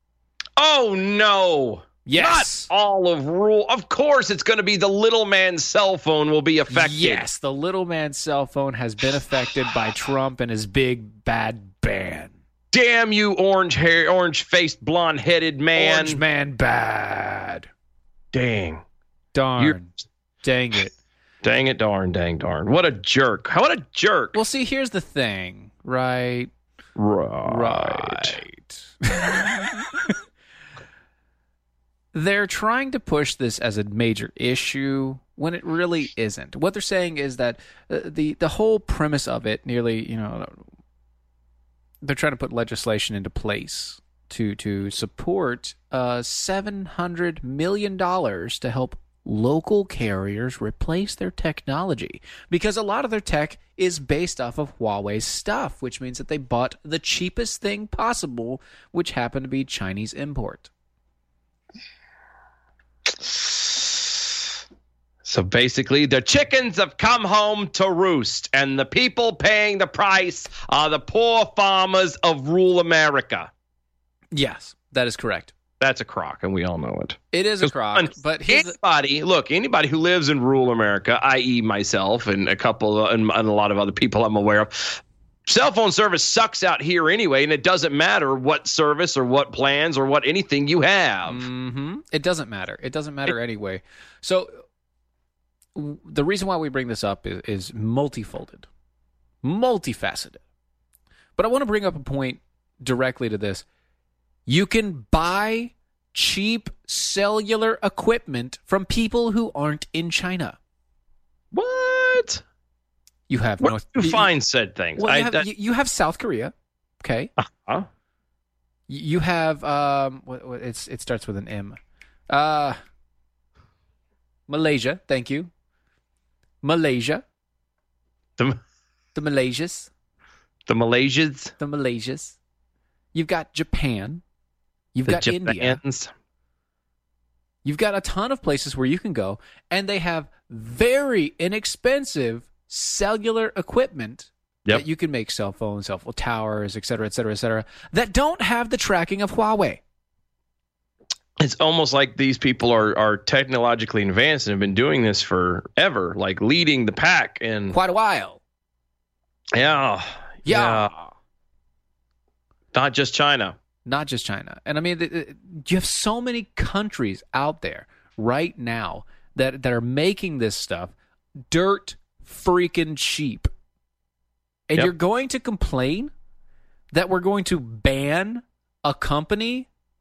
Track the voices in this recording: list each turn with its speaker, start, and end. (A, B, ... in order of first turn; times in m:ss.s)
0:00.6-0:07.2 A
0:02.0-0:02.7 B
0:06.7-0:12.3 B
0:12.7-0:16.2 A
0:15.8-0:17.7 B
0:18.3-0:18.8 A
0:19.3-0:21.0 B
0:21.4-0:24.4 A
0:24.3-0:26.5 B
0:27.0-0:28.4 A
0:27.4-0:30.1 B
0:32.1-0:40.6 B
0:42.0-1:00.7 B
1:03.2-1:04.2 A
1:05.2-1:13.5 A
1:14.3-1:15.5 B
1:15.8-1:31.4 A
1:17.3-1:18.8 B
1:31.2-1:34.6 B
1:35.7-1:38.7 B
1:39.4-1:40.4 B
1:41.4-1:43.6 B
1:44.5-1:50.6 B
1:51.5-1:52.4 A
1:53.3-1:54.3 B
1:53.6-1:55.5 A
1:55.0-1:57.3 B
1:57.4-1:57.9 A
1:58.9-2:01.8 B
2:02.3-2:02.8 B
2:04.5-2:05.5 B
2:06.6-2:07.2 B
2:09.1-2:09.9 B
2:10.7-2:11.5 A
2:11.6-2:12.4 B
2:13.1-2:14.2 B
2:14.9-2:15.8 B
2:15.1-2:16.1 A
2:17.6-2:29.8 B
2:31.4-2:37.8 A
2:37.7-2:38.4 B
2:39.5-2:41.0 A
2:40.4-2:40.9 B
2:42.7-2:43.6 A
2:43.8-2:50.9 B
2:51.5-2:53.5 B
2:54.7-2:56.1 B
2:56.9-2:59.7 B